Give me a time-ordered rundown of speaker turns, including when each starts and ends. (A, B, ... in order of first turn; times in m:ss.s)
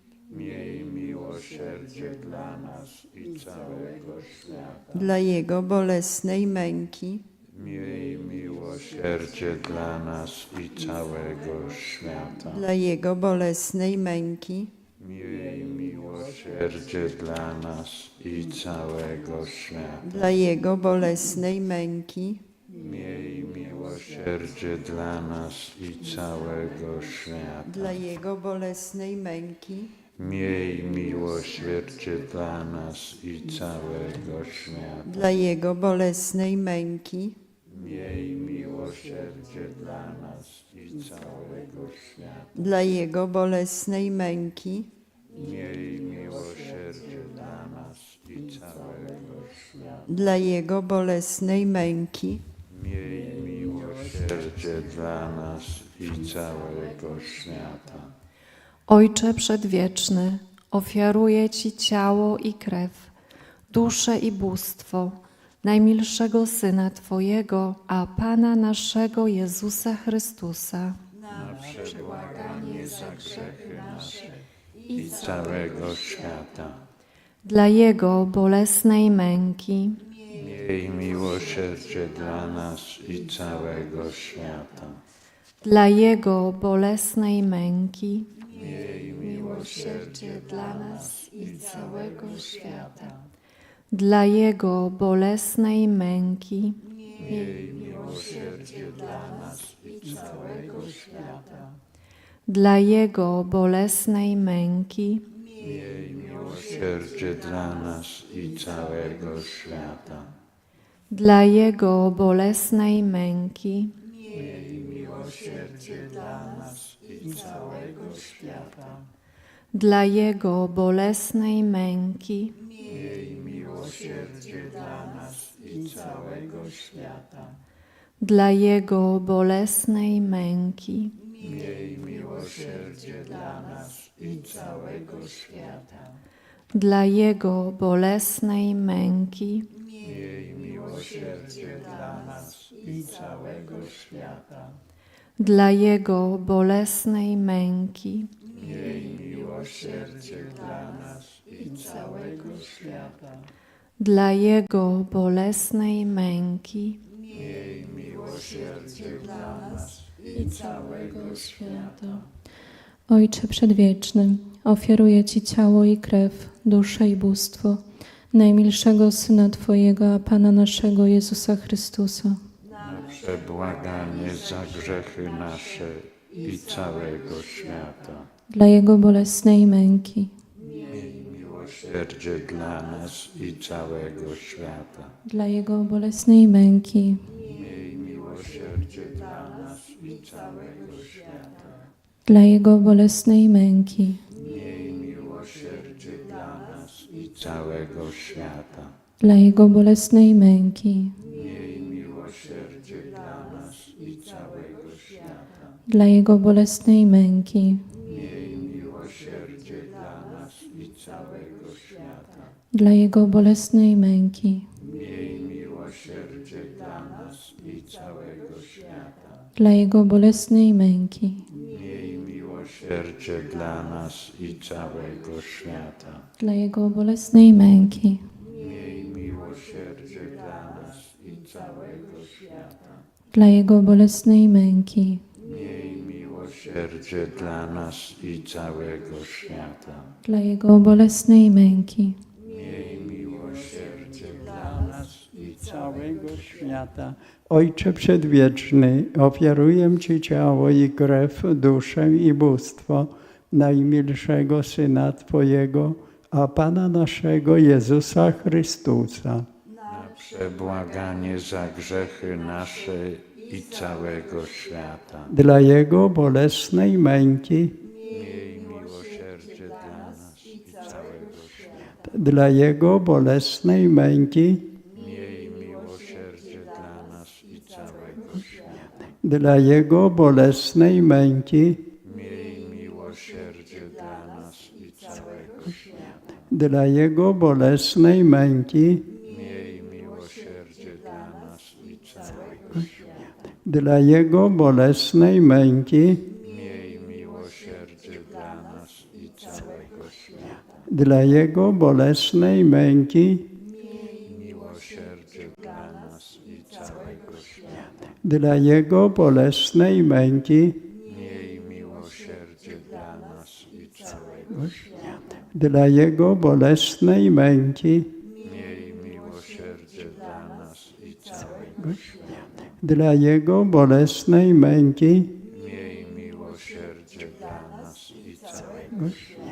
0:00.3-0:05.0 A
0:04.9-0:07.2 B
0:07.5-0:12.6 A
0:12.5-0:14.7 B
0:15.0-0:20.3 A
0:20.1-0:22.4 B
0:22.7-0:28.0 A
0:27.8-0:29.9 B
0:30.2-0:35.3 A
0:35.0-0:37.4 B
0:37.7-0:42.6 A
0:42.5-0:44.9 B
0:45.3-0:49.7 A
0:50.0-0:52.4 B
0:52.7-0:58.1 A
0:58.9-1:03.1 C
1:03.7-1:11.0 C
1:11.2-1:16.0 B
1:11.3-1:14.3 A
1:14.9-1:16.8 A
1:17.4-1:20.0 C
1:20.3-1:25.0 A
1:20.4-1:22.2 B
1:25.6-1:28.4 C
1:28.5-1:32.3 A
1:29.0-1:33.1 B
1:29.5-1:32.7 C
1:33.9-1:36.8 C
1:37.2-1:40.9 A
1:37.2-1:37.6 B
1:38.3-1:38.8 B
1:40.1-1:41.3 B
1:42.5-1:45.2 C
1:45.6-1:50.3 A
1:46.7-1:47.1 B
1:51.1-1:54.0 C
1:54.5-1:55.2 B
1:55.6-1:56.1 A
1:56.6-1:57.4 B
1:56.7-1:57.4 A
1:57.3-1:58.8 D
1:59.7-2:02.6 C
2:02.9-2:07.0 A
2:06.5-2:07.2 D
2:08.2-2:11.2 C
2:11.4-2:16.0 A
2:16.7-2:19.7 C
2:20.0-2:24.4 A
2:25.4-2:28.3 C
2:28.5-2:32.5 A
2:31.6-2:32.8 B
2:31.7-2:33.2 D
2:34.0-2:37.0 C
2:37.3-2:41.4 A
2:38.6-2:39.4 B
2:40.3-2:42.3 E
2:43.1-2:52.4 E
2:52.8-2:58.3 A
2:53.8-2:55.1 B
2:58.5-3:00.3 E
3:00.9-3:05.1 A
3:05.2-3:07.3 E
3:07.4-3:11.6 A
3:12.2-3:14.2 E
3:14.4-3:18.9 A
3:19.2-3:21.2 E
3:21.2-3:25.6 A
3:25.9-3:27.9 E
3:28.0-3:32.4 A
3:32.7-3:34.7 E
3:34.8-3:39.2 A
3:39.6-3:41.5 E
3:41.6-3:46.3 A
3:46.4-3:48.3 E
3:48.5-3:52.7 A
3:53.3-3:55.2 E
3:55.4-4:00.1 A
4:00.2-4:02.2 E
4:02.4-4:05.4 A
4:05.4-4:19.5 D
4:19.9-4:25.3 A
4:20.2-4:20.6 B
4:25.3-4:27.8 D
4:28.1-4:31.7 A
4:32.1-4:34.8 D
4:34.9-4:38.6 A
4:39.2-4:41.9 D
4:42.0-4:46.1 A
4:46.5-4:49.1 D
4:49.1-4:53.0 A
4:53.6-4:56.3 D
4:56.3-5:00.6 A
5:00.9-5:03.5 D
5:04.2-5:07.8 A
5:08.2-5:10.8 D
5:11.0-5:14.9 A
5:15.5-5:18.1 D
5:18.4-5:22.1 A
5:22.8-5:25.3 D
5:25.4-5:29.4 A
5:28.7-5:29.1 B